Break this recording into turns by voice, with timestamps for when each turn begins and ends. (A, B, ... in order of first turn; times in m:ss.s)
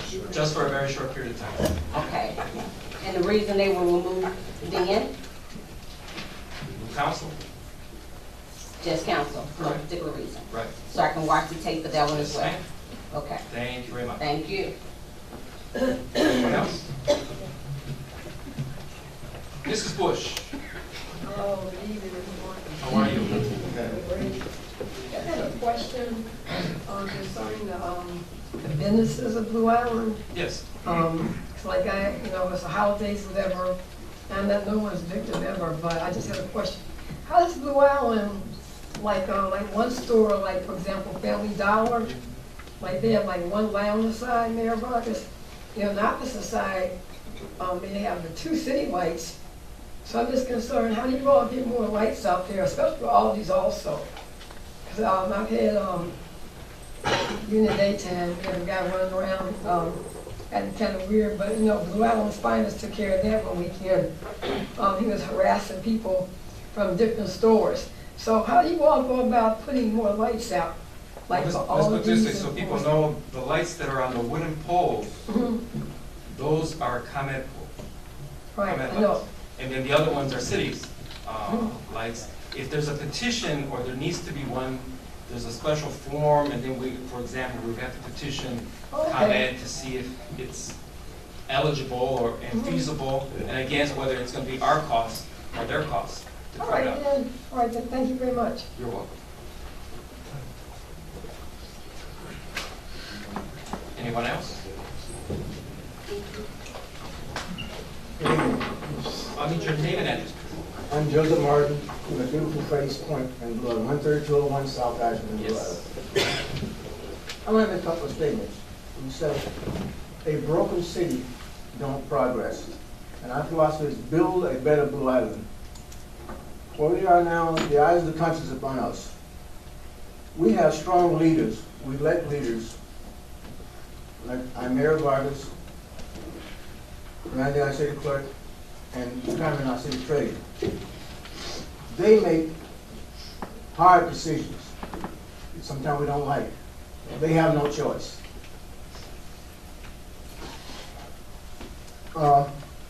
0:00.2-0:01.8 A
0:01.9-0:02.3 B
0:03.0-0:05.1 B
0:06.7-0:07.3 A
0:08.8-0:12.5 B
0:10.5-0:10.7 A
0:12.0-0:12.6 A
0:13.1-0:13.4 B
0:13.5-0:14.2 A
0:14.2-0:14.7 B
0:16.2-0:16.8 A
0:19.6-0:20.5 A
0:21.2-0:22.9 C
0:22.8-0:23.5 A
0:23.6-0:24.4 C
0:25.1-0:26.3 C
0:26.8-0:30.2 C
0:30.3-0:30.6 A
0:30.8-0:33.8 C
0:34.3-0:42.2 C
0:42.8-0:46.9 C
0:47.6-0:49.3 C
0:50.0-0:54.0 C
0:54.8-0:56.1 C
0:57.1-1:04.1 C
1:04.8-1:10.7 C
1:11.3-1:12.9 C
1:11.3-1:15.2 A
1:15.3-1:15.6 C
1:16.3-1:17.7 A
1:18.5-1:19.2 C
1:18.6-1:30.7 A
1:21.5-1:21.7 C
1:28.9-1:29.5 C
1:31.5-1:37.0 A
1:32.5-1:32.9 C
1:36.6-1:38.7 C
1:38.8-1:39.1 A
1:43.9-1:44.6 A
1:48.2-1:48.7 D
1:49.3-1:50.6 A
1:50.9-1:55.8 D
1:55.4-1:55.8 A
1:57.4-1:59.5 D
2:00.2-2:05.4 D
2:06.7-2:09.1 D
2:10.3-2:12.8 D
2:14.2-2:15.5 D
2:17.3-2:18.3 D
2:18.9-2:20.4 D
2:21.9-2:22.5 D
2:23.7-2:24.7 D
2:25.5-2:26.5 D
2:27.1-2:28.2 D
2:32.1-2:32.5 D